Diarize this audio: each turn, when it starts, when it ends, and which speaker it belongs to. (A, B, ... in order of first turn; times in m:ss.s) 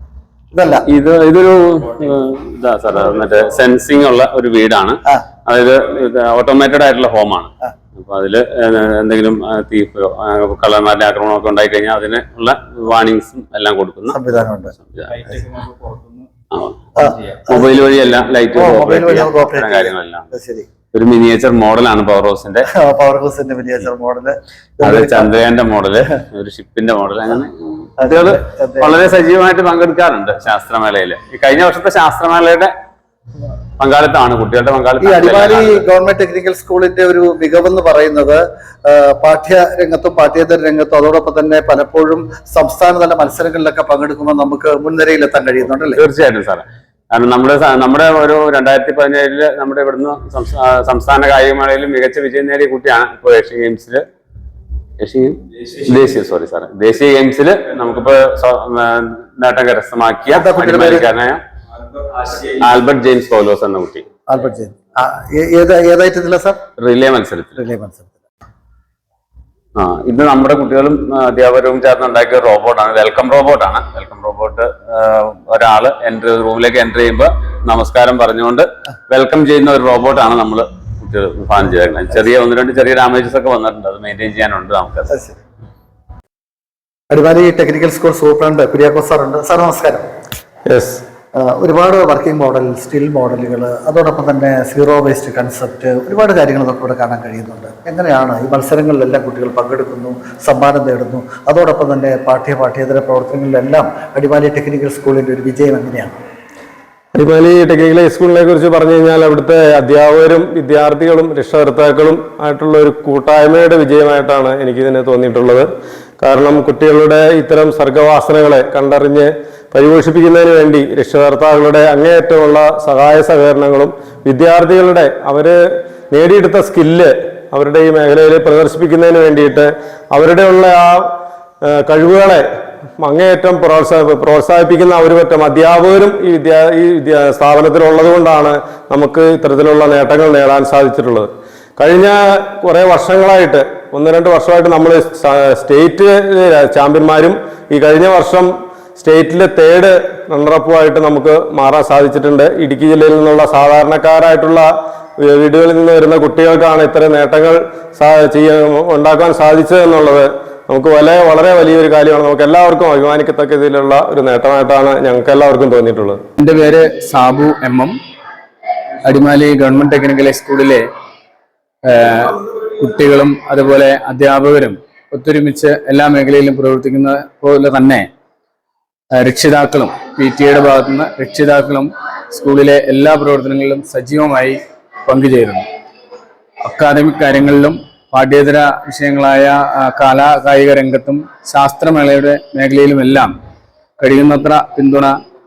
0:00.5-0:00.8 A
0:00.9-0:15.0 B
0:14.1-0:14.7 A
0:15.1-0:16.3 C
0:16.5-0:20.3 B
0:17.0-0:17.8 A
0:18.5-0:20.7 A
0:20.9-0:22.7 B
0:22.7-0:25.4 A
0:24.8-0:32.7 B
0:28.0-0:29.0 A
0:33.8-0:35.8 B
0:35.0-0:46.0 A
0:45.8-0:54.0 B
0:55.0-1:01.4 B
1:00.3-1:01.1 A
1:02.2-1:04.0 B
1:04.3-1:06.6 A
1:06.8-1:07.6 B
1:07.6-1:08.1 A
1:09.8-1:25.1 B
1:25.1-1:25.4 A
1:27.1-1:30.0 A
1:30.7-1:31.0 D
1:31.3-1:46.2 A
1:47.1-1:55.6 D
1:56.2-2:05.5 D
2:06.1-2:11.0 D
2:11.7-2:12.4 D
2:13.0-2:34.6 D
2:35.2-2:46.2 D
2:46.4-2:48.0 C
2:49.0-2:50.8 C
2:51.8-2:58.1 C
2:59.1-3:05.6 C
3:06.6-3:13.3 C
3:14.0-3:15.2 C